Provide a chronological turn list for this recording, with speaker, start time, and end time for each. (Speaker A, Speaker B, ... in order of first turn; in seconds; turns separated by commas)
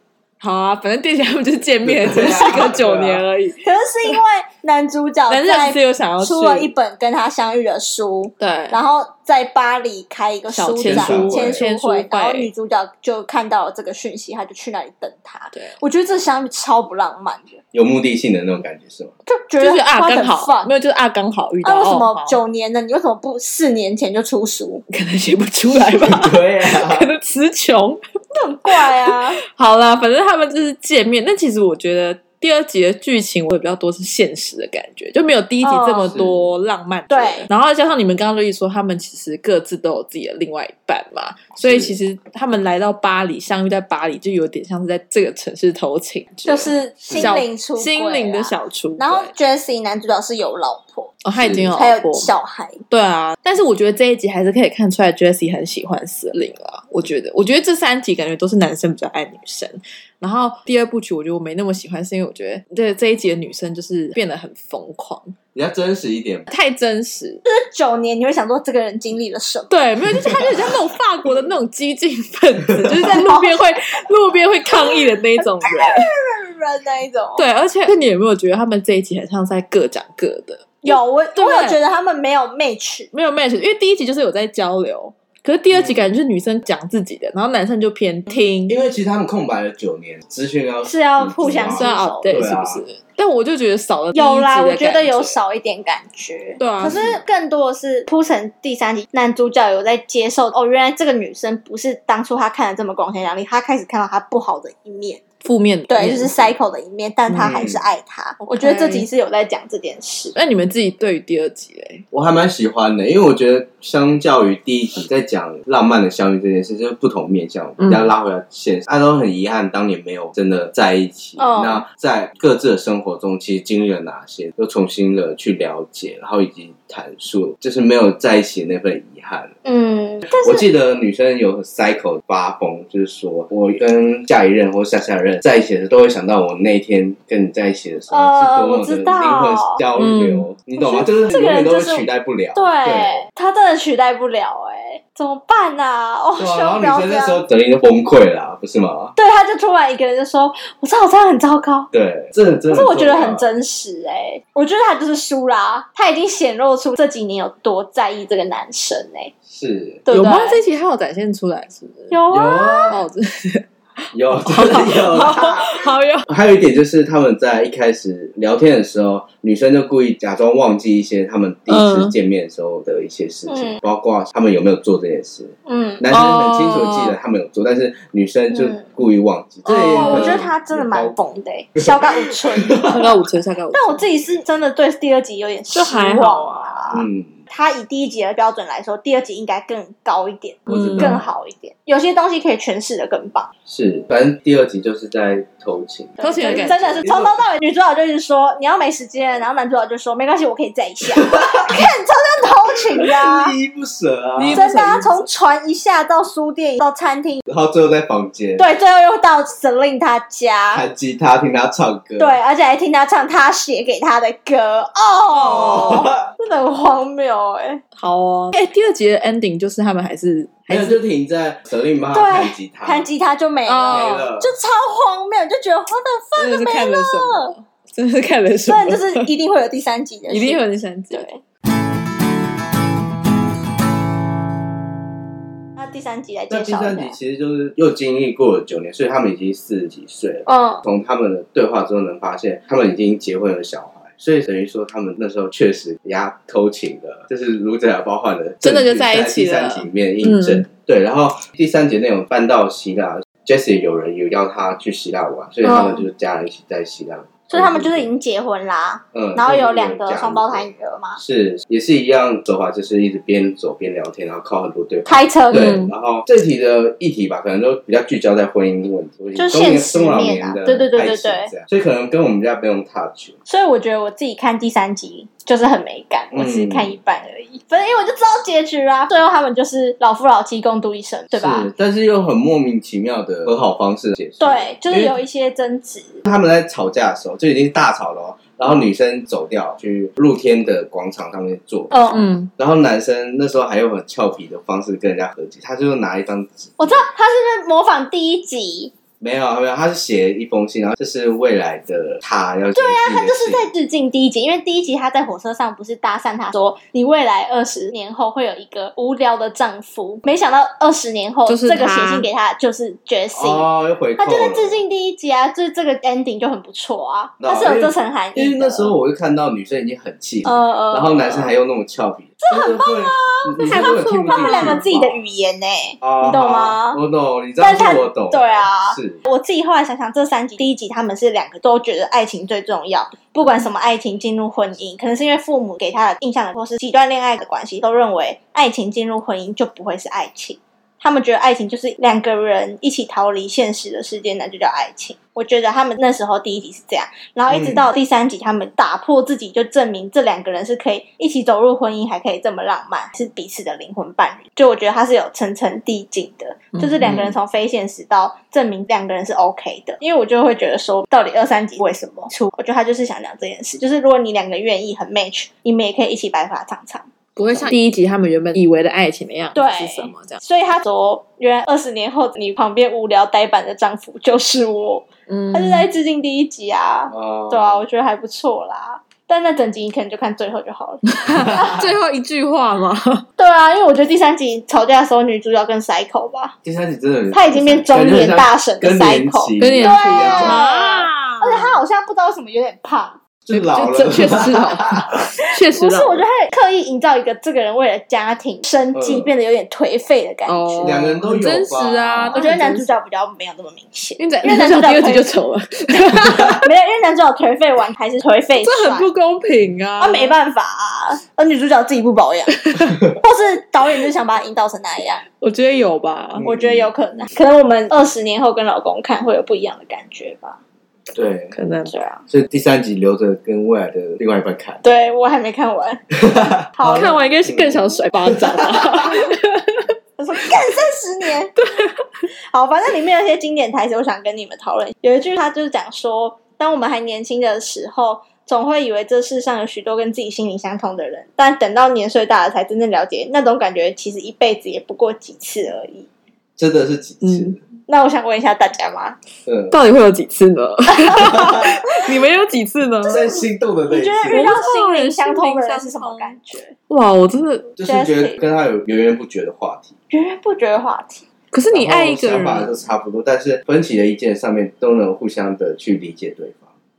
Speaker A: 0.4-3.6, Speaker B: 1.8-3.2, Speaker C: 3.6-17.6, Speaker A: 5.3-6.7, Speaker A: 8.4-8.8, Speaker A: 10.5-12.5, Speaker B: 10.8-11.6, Speaker B: 17.7-19.1, Speaker C: 19.2-20.7, Speaker A: 19.6-22.4, Speaker C: 21.6-24.8, Speaker A: 24.9-28.0, Speaker B: 25.7-27.1, Speaker C: 28.3-29.4, Speaker A: 28.7-49.3, Speaker C: 35.6-36.2, Speaker B: 36.0-36.5, Speaker C: 37.1-37.5, Speaker B: 41.6-42.0, Speaker C: 46.4-51.2, Speaker B: 47.0-47.3, Speaker A: 51.2-52.3, Speaker B: 51.3-51.7, Speaker C: 51.7-52.8, Speaker A: 52.9-65.3, Speaker B: 65.5-66.5, Speaker A: 66.5-67.4, Speaker C: 67.4-69.8, Speaker A: 69.7-76.1, Speaker B: 70.2-70.5, Speaker C: 73.0-73.9, Speaker C: 74.7-77.4, Speaker A: 77.4-81.8, Speaker C: 80.8-83.1, Speaker A: 83.1-88.8, Speaker B: 85.7-86.1, Speaker B: 88.7-92.8, Speaker C: 90.8-92.4, Speaker A: 91.7-95.4, Speaker C: 94.1-105.2, Speaker A: 96.6-97.0, Speaker B: 96.8-97.2, Speaker A: 105.4-106.5, Speaker C: 105.9-110.3, Speaker B: 107.3-107.8, Speaker A: 108.5-109.1, Speaker A: 110.3-112.0, Speaker B: 112.1-129.5, Speaker A: 117.8-118.1, Speaker C: 121.4-121.8, Speaker C: 129.6-130.6, Speaker B: 130.3-143.2, Speaker C: 138.1-139.8, Speaker A: 140.0-140.5, Speaker C: 140.8-147.4, Speaker B: 146.4-149.1, Speaker C: 149.2-151.9, Speaker B: 151.9-153.5, Speaker C: 152.7-159.3, Speaker B: 159.5-160.0, Speaker C: 160.0-160.6, Speaker A: 160.1-162.2, Speaker C: 162.1-163.0, Speaker B: 162.3-163.0, Speaker A: 162.9-166.2, Speaker B: 164.1-181.2, Speaker A: 171.7-172.1, Speaker C: 173.5-173.8, Speaker C: 175.7-176.0, Speaker A: 176.1-177.2, Speaker C: 178.5-178.8, Speaker A: 179.7-180.5, Speaker C: 179.7-182.9, Speaker B: 181.8-182.0, Speaker B: 182.6-183.1, Speaker A: 182.9-184.0, Speaker C: 183.7-193.5, Speaker A: 185.7-186.8, Speaker B: 186.9-187.3, Speaker A: 190.7-191.2, Speaker B: 190.7-191.2, Speaker B: 193.7-197.4, Speaker C: 196.2-203.5, Speaker A: 196.2-197.0, Speaker B: 201.1-201.8, Speaker B: 202.7-204.6, Speaker A: 204.4-205.3, Speaker C: 204.5-207.4, Speaker B: 207.5-208.6, Speaker C: 208.6-210.8, Speaker B: 210.7-212.4, Speaker C: 212.2-217.8, Speaker B: 215.4-216.3, Speaker A: 215.6-216.0, Speaker A: 217.9-221.0, Speaker B: 220.7-223.1, Speaker C: 222.1-227.5, Speaker A: 223.7-224.3, Speaker B: 223.9-224.5, Speaker A: 226.4-229.3, Speaker C: 228.7-231.4, Speaker A: 230.3-231.3, Speaker C: 235.8-237.2, Speaker B: 236.5-258.1, Speaker C: 240.4-240.8, Speaker A: 248.6-250.6, Speaker C: 255.6-256.1, Speaker C: 257.5-261.2, Speaker B: 259.1-273.4, Speaker C: 265.1-265.9, Speaker A: 265.5-265.9, Speaker C: 269.3-271.5, Speaker C: 273.4-281.7, Speaker B: 276.3-276.9, Speaker B: 281.3-285.2, Speaker C: 284.4-286.2, Speaker B: 286.2-292.0, Speaker C: 291.9-292.2, Speaker A: 292.1-292.5, Speaker B: 292.6-297.0, Speaker C: 296.8-298.9, Speaker B: 299.2-303.7, Speaker C: 302.7-318.9, Speaker A: 311.5-312.3, Speaker B: 313.3-314.8, Speaker B: 317.4-325.2, Speaker C: 320.4-321.5, Speaker C: 322.4-327.0, Speaker A: 323.6-324.8, Speaker B: 326.0-329.2, Speaker C: 327.6-367.1, Speaker B: 347.5-347.9, Speaker B: 357.0-357.3, Speaker A: 367.4-370.4, Speaker C: 369.5-381.7, Speaker A: 375.3-375.9, Speaker B: 377.1-377.8, Speaker A: 381.1-383.2, Speaker B: 381.4-381.8, Speaker C: 383.4-386.6, Speaker B: 386.6-390.6, Speaker C: 387.3-393.2, Speaker A: 389.6-391.8, Speaker B: 393.4-395.2, Speaker A: 393.5-396.2, Speaker C: 395.7-401.0, Speaker B: 398.9-399.3, Speaker A: 400.5-402.9, Speaker B: 400.8-402.4, Speaker C: 402.3-405.3, Speaker A: 404.2-406.6, Speaker C: 406.4-409.1, Speaker A: 408.6-410.4, Speaker C: 410.0-412.6, Speaker A: 412.6-413.0, Speaker C: 413.1-415.2, Speaker A: 415.4-416.4, Speaker B: 416.4-416.9, Speaker C: 416.4-420.6, Speaker B: 421.1-421.6, Speaker A: 421.5-421.9, Speaker C: 421.9-422.2, Speaker B: 422.3-424.8, Speaker C: 424.8-426.0, Speaker B: 426.2-429.1, Speaker C: 426.8-427.2, Speaker A: 426.8-429.9, Speaker C: 430.2-431.6, Speaker A: 431.6-431.9, Speaker C: 432.5-446.1, Speaker B: 446.6-447.6, Speaker A: 447.2-447.6, Speaker C: 447.9-449.2, Speaker B: 449.4-449.8, Speaker A: 449.7-453.2, Speaker C: 453.0-456.7, Speaker B: 453.1-454.6, Speaker A: 454.3-456.3, Speaker A: 456.9-457.7, Speaker B: 457.8-459.9, Speaker C: 457.8-458.4, Speaker C: 460.1-461.2, Speaker A: 461.5-462.7, Speaker B: 461.7-466.6